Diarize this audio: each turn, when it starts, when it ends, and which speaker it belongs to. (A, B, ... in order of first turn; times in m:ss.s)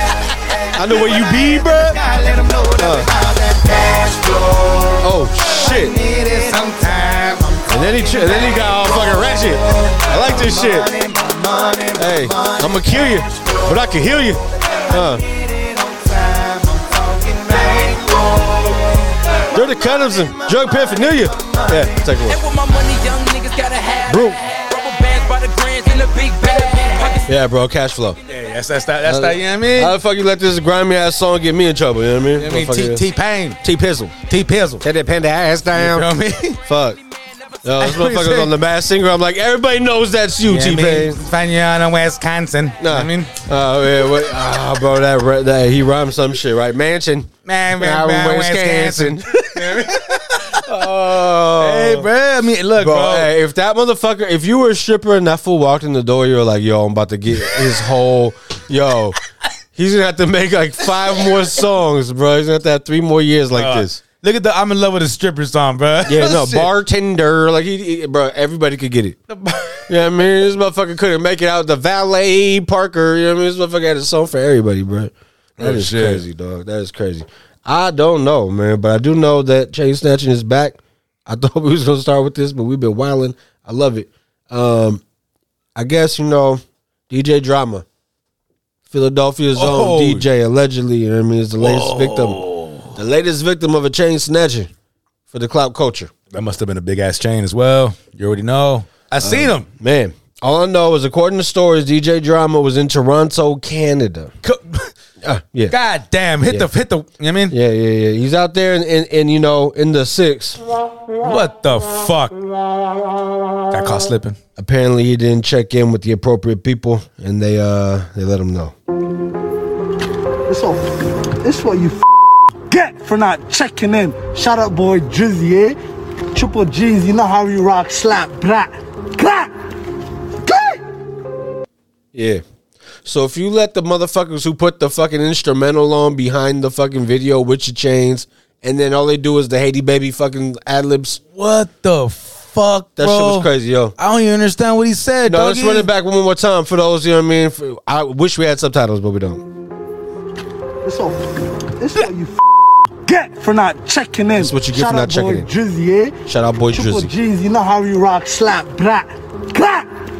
0:00.8-0:02.0 A
0:01.1-0:05.0 B
0:02.8-0:03.1 A
0:05.0-0:06.0 A
0:05.6-0:06.7 B
0:06.3-0:07.5 C
0:07.2-0:09.0 B
0:07.7-0:10.9 A
0:09.9-0:12.7 B
0:12.0-0:15.2 A
0:15.4-0:18.7 B
0:19.5-0:22.4 A
0:21.4-0:21.8 B
0:22.3-0:27.2 D
0:24.1-0:24.4 A
0:27.2-0:28.2 A
0:28.3-0:29.9 C
0:29.0-0:33.0 A
0:32.4-0:33.6 C
0:33.6-0:34.2 A
0:34.2-0:34.8 C
0:34.8-0:36.1 A
0:35.8-0:36.6 C
0:36.7-0:37.0 A
0:37.6-0:41.2 A
0:37.8-0:38.5 C
0:40.5-0:43.4 C
0:42.8-0:49.7 A
0:47.5-0:50.6 C
0:50.6-0:52.1 A
0:51.6-0:53.3 C
0:52.8-0:59.1 A
0:59.8-1:04.0 A
1:03.6-1:06.7 C
1:06.1-1:09.2 A
1:09.3-1:09.8 C
1:09.9-1:25.0 A
1:15.6-1:16.2 C
1:25.8-1:27.8 A
1:28.9-1:32.4 A
1:29.6-1:30.2 C
1:31.6-1:32.9 C
1:33.0-1:34.7 A
1:35.3-1:36.1 A
1:36.3-1:39.7 C
1:39.2-1:44.3 A
1:44.4-1:44.9 C
1:45.2-1:45.8 A
1:45.7-1:47.6 C
1:47.5-1:50.6 A
1:51.2-1:52.4 C
1:53.7-1:54.4 C
1:54.6-1:58.7 A
2:00.5-2:00.8 E
2:01.4-2:02.0 E
2:02.7-2:05.8 E
2:06.4-2:09.5 E
2:10.4-2:10.8 E
2:12.1-2:12.4 A
2:13.0-2:21.2 A
2:21.4-2:25.9 C
2:23.0-2:23.9 A
2:25.3-2:29.4 A
2:30.8-2:31.2 E
2:31.8-2:32.4 E
2:33.0-2:36.2 E
2:34.4-2:35.5 A
2:36.3-2:37.1 A
2:36.7-2:39.9 E